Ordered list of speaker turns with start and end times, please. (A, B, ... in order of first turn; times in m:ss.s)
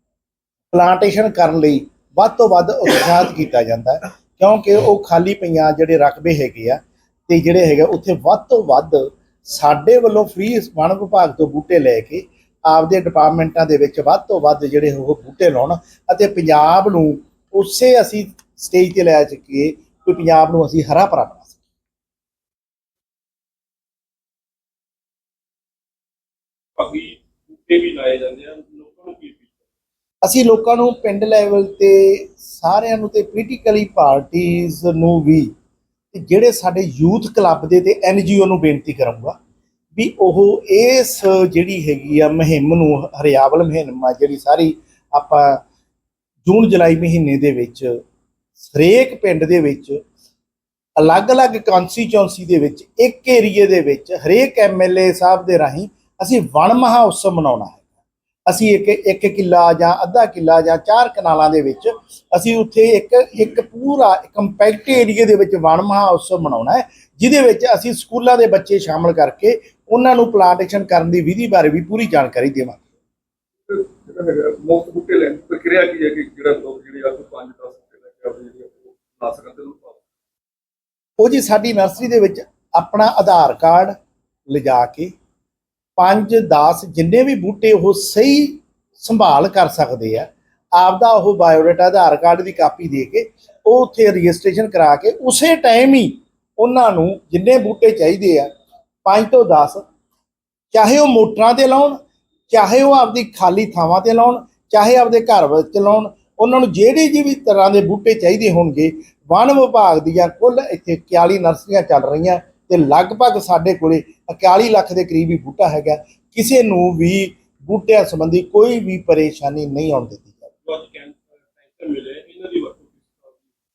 0:00.7-0:21.6 A
0:26.8-0:29.6 B
0:30.2-0:35.5 A
0:36.1-0:39.4 A
0:39.9-0:45.6 A
0:46.4-0:47.9 A
0:48.6-0:50.0 A
0:51.0-0:57.8 A
0:58.5-1:12.8 A
1:13.6-1:20.0 C
1:21.2-1:23.9 A
1:24.5-1:25.1 A
1:26.0-1:38.5 A
1:39.0-1:39.8 A
1:40.7-1:42.0 A
1:42.5-2:00.5 A
2:00.6-2:03.4 B